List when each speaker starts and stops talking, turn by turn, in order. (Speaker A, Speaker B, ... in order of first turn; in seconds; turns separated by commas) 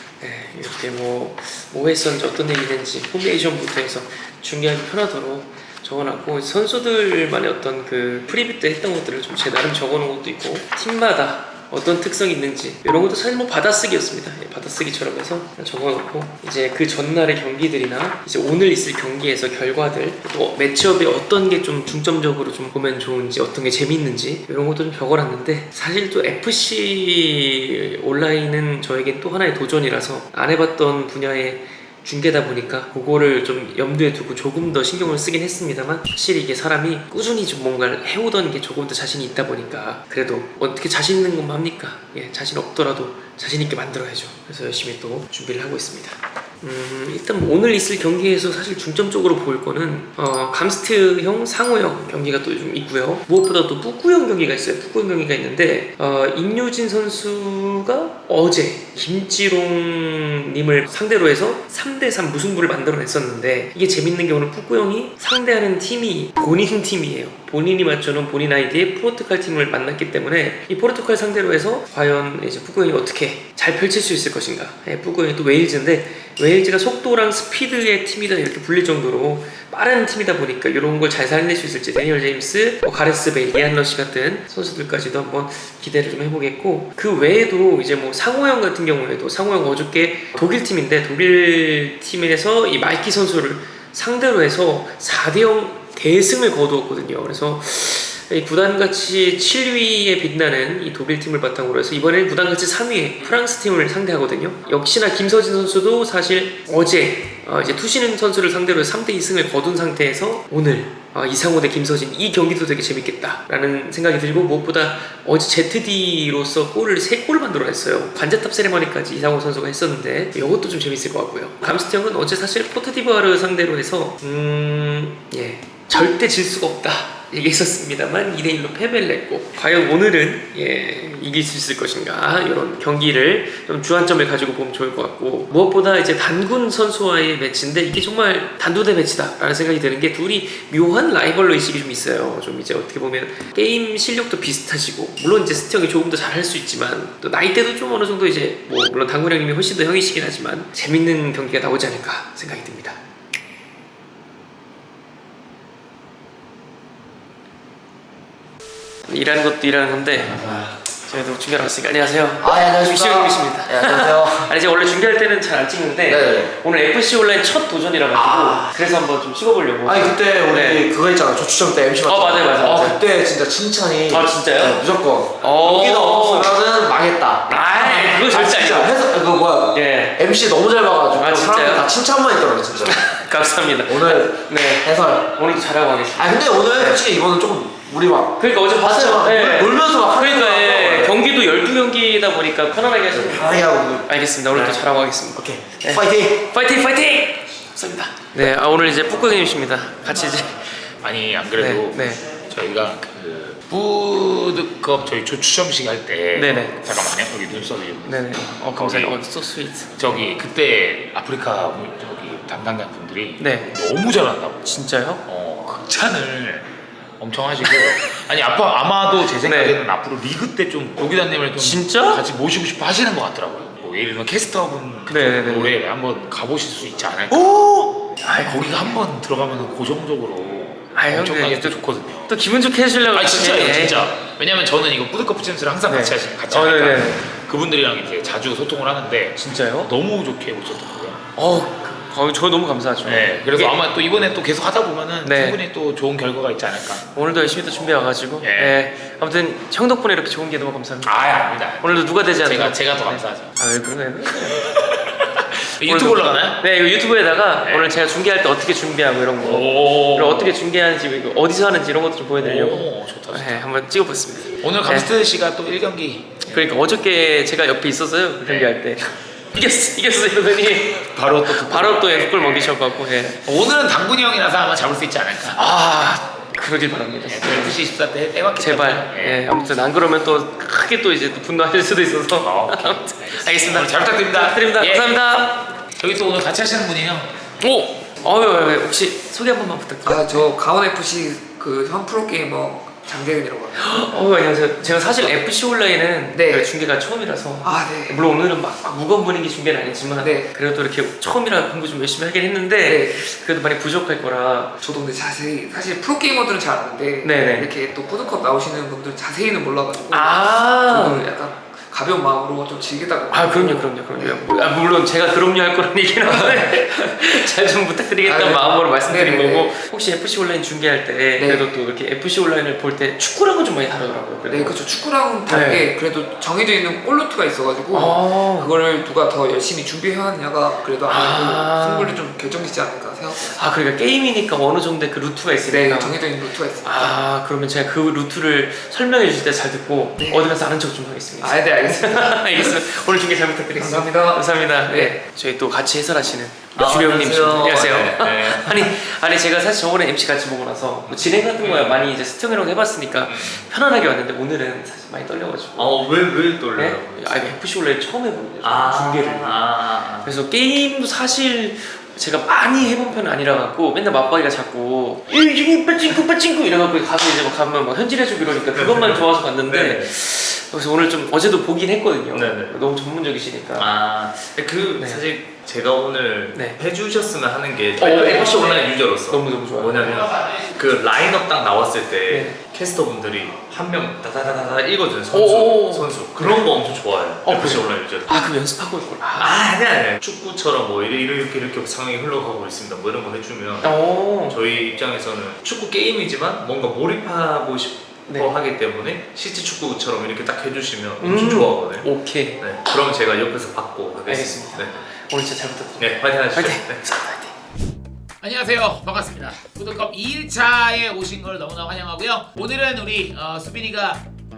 Speaker A: 0.2-153.0, Speaker A: 159.1-170.9, Speaker B: 162.4-164.5, Speaker B: 166.0-166.5, Speaker B: 168.1-168.7, Speaker B: 169.8-183.1, Speaker A: 172.0-173.0, Speaker A: 174.1-174.9, Speaker A: 175.4-176.6, Speaker A: 177.5-179.1, Speaker A: 179.7-180.2, Speaker A: 181.1-181.9, Speaker A: 182.8-187.1, Speaker B: 183.8-185.3, Speaker B: 186.1-191.2, Speaker A: 188.4-200.6, Speaker B: 193.1-194.1, Speaker B: 195.5-196.3, Speaker C: 201.0-209.2, Speaker A: 201.6-202.2, Speaker A: 206.3-206.9, Speaker A: 208.1-210.2, Speaker C: 210.0-214.7, Speaker A: 213.4-213.7, Speaker A: 214.6-215.3, Speaker C: 215.3-216.7, Speaker C: 217.2-227.5, Speaker A: 217.7-218.2, Speaker A: 219.4-219.8, Speaker A: 221.6-222.2, Speaker A: 225.1-225.8, Speaker A: 227.3-229.0, Speaker C: 228.4-232.3, Speaker A: 230.9-234.1, Speaker C: 233.1-241.2, Speaker A: 235.9-237.3, Speaker A: 239.4-239.9, Speaker A: 241.4-243.8, Speaker C: 243.0-247.0, Speaker A: 245.2-245.6, Speaker A: 247.1-254.8, Speaker C: 248.4-248.8, Speaker C: 251.0-253.5, Speaker A: 255.4-265.1, Speaker C: 255.8-256.6, Speaker C: 257.6-257.9, Speaker C: 259.4-260.6, Speaker C: 262.4-263.7, Speaker C: 264.6-266.5, Speaker A: 266.4-273.4, Speaker C: 268.4-268.7, Speaker C: 271.1-272.8, Speaker C: 273.4-275.6, Speaker A: 275.5-277.8, Speaker C: 277.3-279.5, Speaker A: 278.6-285.7, Speaker C: 282.4-285.2, Speaker C: 286.0-287.3, Speaker A: 287.6-290.5, Speaker D: 290.1-293.9, Speaker A: 293.8-304.8, Speaker D: 296.3-296.7, Speaker D: 297.6-298.2, Speaker D: 300.2-300.5, Speaker D: 302.9-303.2, Speaker D: 304.8-314.6, Speaker A: 307.2-307.7, Speaker A: 310.1-311.3, Speaker A: 313.3-324.8, Speaker D: 316.3-316.8, Speaker D: 318.2-319.8, Speaker D: 321.4-321.7, Speaker D: 324.5-333.7, Speaker A: 325.5-325.9, Speaker A: 327.9-328.7, Speaker A: 331.1-332.2, Speaker A: 333.4-336.2, Speaker D: 335.7-337.2, Speaker A: 336.8-356.1, Speaker D: 340.2-340.5, Speaker D: 341.4-342.9, Speaker D: 343.7-345.2, Speaker E: 346.8-348.9, Speaker E: 351.4-352.1, Speaker E: 353.3-353.7, Speaker E: 355.8-357.6, Speaker A: 356.7-373.9, Speaker E: 358.6-360.3, Speaker E: 368.7-370.1, Speaker E: 372.3-372.8, Speaker E: 373.8-388.5, Speaker A: 375.0-375.2, Speaker A: 376.5-376.8, Speaker A: 378.0-380.2, Speaker C: 380.4-380.7, Speaker A: 382.3-382.6, Speaker A: 385.3-386.7, Speaker A: 387.4-389.6, Speaker E: 389.4-405.1, Speaker A: 393.8-394.6, Speaker A: 398.3-398.6, Speaker A: 401.2-402.6, Speaker A: 404.3-407.5, Speaker E: 406.0-407.1, Speaker C: 408.4-414.2